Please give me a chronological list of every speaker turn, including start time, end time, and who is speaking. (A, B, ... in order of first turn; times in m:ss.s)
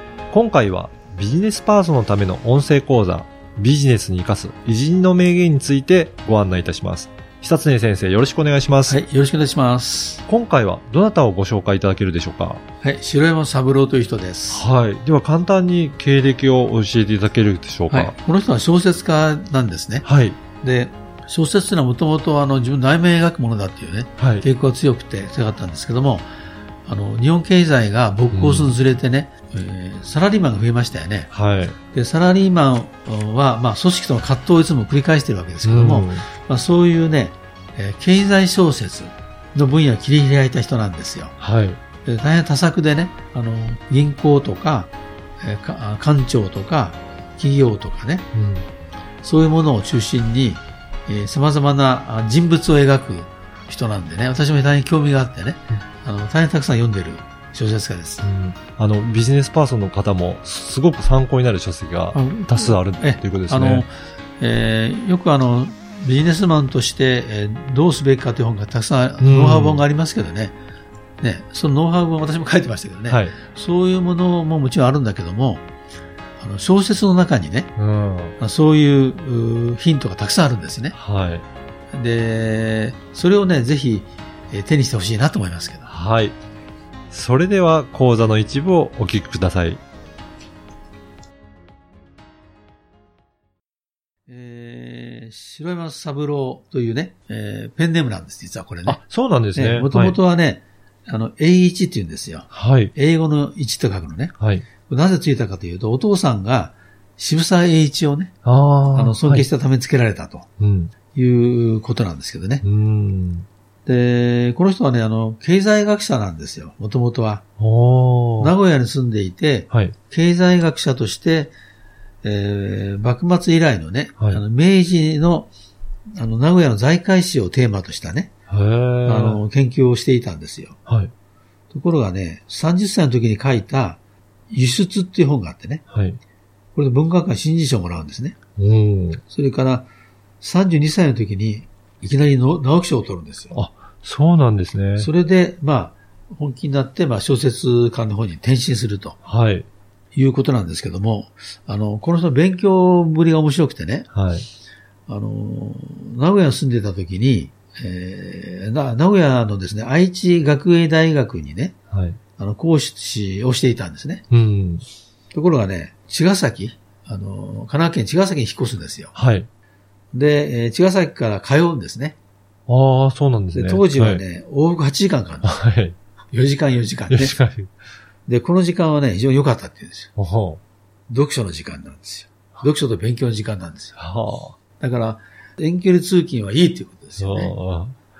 0:00.3-0:09.0 A
0:08.9-0:10.2 B
0:10.3-0:12.6 A
0:12.8-0:14.6 B
0:14.5-0:18.1 A
0:17.9-0:20.0 B
0:20.0-0:20.4 A
0:20.6-0:26.3 B
0:24.2-0:24.4 A
0:26.9-0:31.3 B
0:28.3-0:28.7 A
0:31.3-0:31.8 A
0:31.9-0:41.3 B
0:35.6-0:36.2 A
0:41.4-0:41.8 A
0:42.0-0:48.3 B
0:48.3-0:48.7 A
0:49.2-0:58.2 B
0:58.2-1:03.8 A
1:02.1-1:10.6 B
1:09.2-1:09.8 A
1:11.2-1:15.6 B
1:13.1-1:13.3 A
1:16.4-1:17.7 B
1:17.8-1:18.4 A
1:18.4-1:21.0 B
1:20.9-1:21.4 A
1:21.9-1:25.9 B
1:25.9-1:26.4 A
1:27.1-1:29.8 A
1:34.3-1:39.0 B
1:38.8-1:40.2 A
1:39.5-1:44.3 B
1:42.5-1:42.9 A
1:44.4-1:44.6 A
1:44.8-1:48.3 B
1:48.4-1:49.5 A
1:48.9-1:50.5 B
1:50.6-1:50.9 A
1:51.1-1:52.6 B
1:52.6-1:53.5 A
1:53.8-1:57.4 B
1:57.6-1:58.5 A
1:58.4-2:01.5 B
2:02.2-2:05.5 B
2:06.1-2:08.3 B
2:08.5-2:09.4 A
2:09.0-2:10.8 B
2:10.8-2:11.1 A
2:11.7-2:14.0 B
2:14.5-2:15.8 B
2:15.9-2:16.2 A
2:16.7-2:18.4 B
2:18.6-2:19.2 A
2:19.3-2:19.9 B
2:20.4-2:23.5 B
2:23.5-2:25.1 A
2:25.0-2:29.2 B
2:29.2-2:29.7 A
2:30.1-2:34.1 B
2:34.1-2:34.5 A
2:35.1-2:41.8 B
2:41.9-2:42.2 A
2:42.4-2:44.2 B
2:44.3-2:44.8 A
2:45.3-2:49.1 B
2:49.1-2:49.5 A
2:50.1-2:52.2 B
2:52.7-2:54.2 A
2:53.5-2:55.6 B
2:55.4-2:55.9 A
2:56.3-2:57.3 B
2:57.1-2:57.7 A
2:58.3-3:00.1 B
3:00.2-3:00.6 A
3:01.1-3:04.0 B
3:04.0-3:04.6 A
3:04.8-3:07.5 B
3:07.2-3:07.9 A